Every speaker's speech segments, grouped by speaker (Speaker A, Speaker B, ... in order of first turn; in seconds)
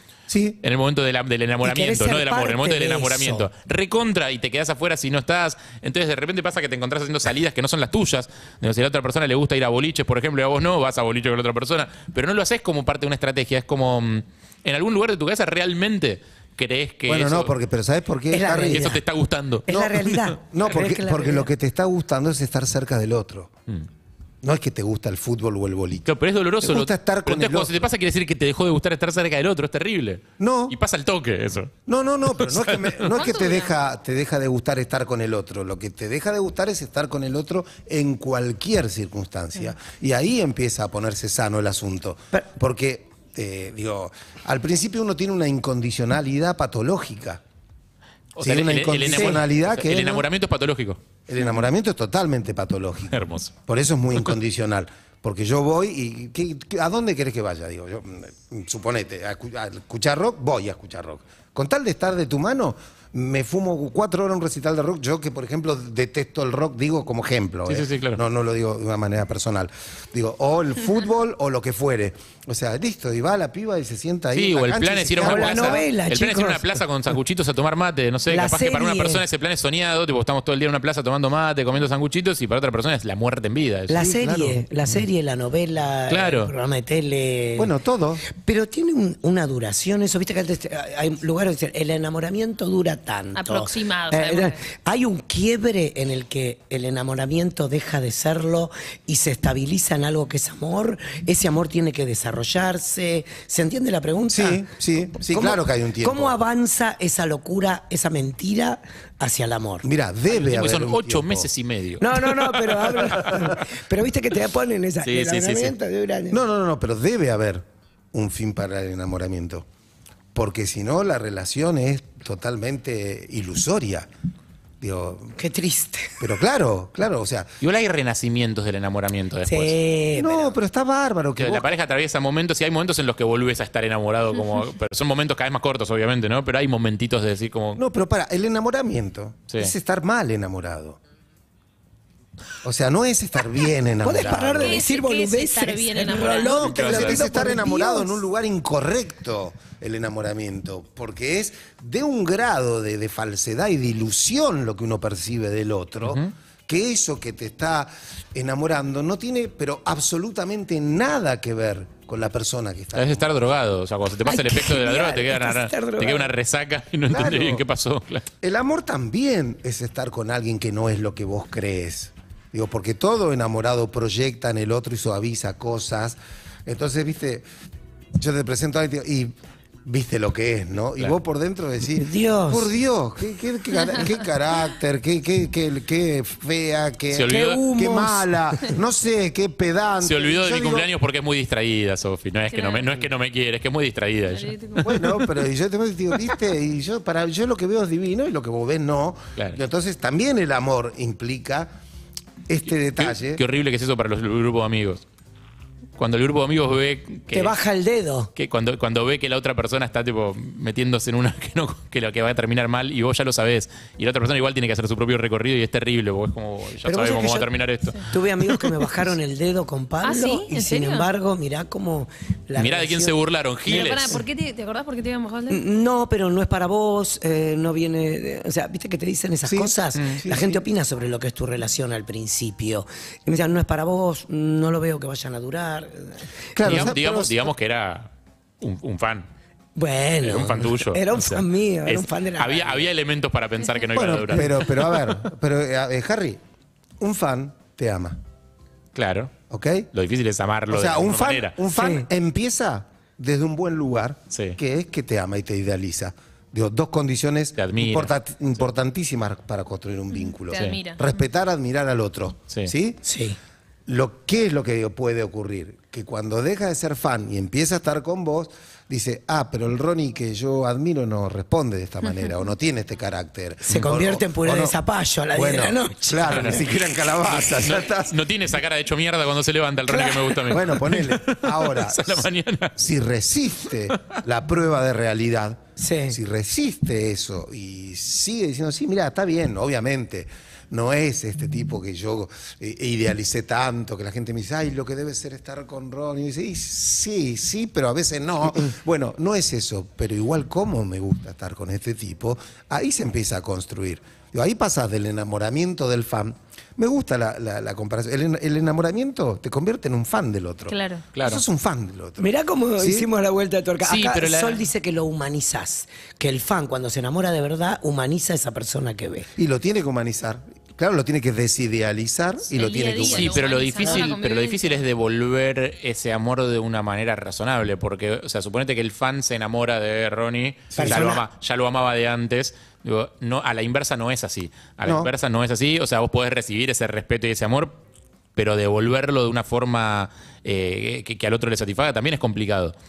Speaker A: 0.3-0.6, 17.1-18.9, 19.7-23.5, 24.4-26.1, 26.6-27.8, 30.4-30.8, 31.9-47.4, 48.4-50.3, 51.3-75.8, 84.0-84.6, 87.5-88.2, 104.3-106.4, 109.8-111.5, 116.3-119.7, 120.3-124.1, 124.8-125.4, 126.2-127.5, 130.1-131.7, 137.8-141.0, 142.6-144.8, 146.7-163.3, 167.1-167.6, 168.4-177.4, 178.2-179.3, 179.8-190.9, 194.8-201.7, 202.5-203.4, 229.4-230.6, 236.5-237.5, 243.9-246.4, 247.0-248.2, 249.5-249.9, 250.7-263.0, 263.9-274.8, 275.3-278.1, 280.5-313.1, 319.4-323.4, 330.7-331.2, 334.8-335.1
Speaker B: 0.6-17.5, 18.7-19.7, 26.1-31.7, 32.3-33.1, 48.3-51.0, 53.1-53.5, 67.7-68.2, 74.3-84.1, 86.1-86.5, 110.3-113.5, 115.0-115.8, 127.6-129.7, 131.4-137.8, 146.5-147.2, 156.1-156.3, 162.9-168.3, 187.1-187.6, 190.0-194.5, 203.0-205.0, 206.0-207.5, 208.3-218.8, 222.6-224.2, 236.6-239.2, 240.2-245.3, 248.9-249.3, 249.9-251.6, 254.3-254.6, 257.6-258.1, 260.5-260.8, 276.2-276.6, 277.4-282.8, 283.9-284.2, 311.1-311.4, 313.8-314.6, 323.0-337.8, 338.4-342.7
Speaker C: 1.6-3.5, 18.3-19.0, 19.7-21.5, 75.2-76.8, 78.3-79.2, 83.9-87.7, 88.3-104.6, 105.2-109.9, 112.0-116.4, 125.4-126.2, 129.5-130.5, 144.0-148.2, 164.2-166.3, 181.9-182.7, 187.2-188.3, 207.3-208.3, 216.8-217.5, 218.0-224.2, 225.5-236.3, 239.7-242.9, 251.7-252.1, 263.0-263.4, 273.7-276.7, 279.9-280.7, 285.8-286.2, 312.2-319.3, 330.8-331.2
Speaker D: 33.1-33.7, 93.3-94.6, 144.6-147.1, 192.5-193.0, 194.3-195.2, 220.0-221.1, 223.7-225.6, 260.1-261.1, 310.7-311.0, 322.5-324.8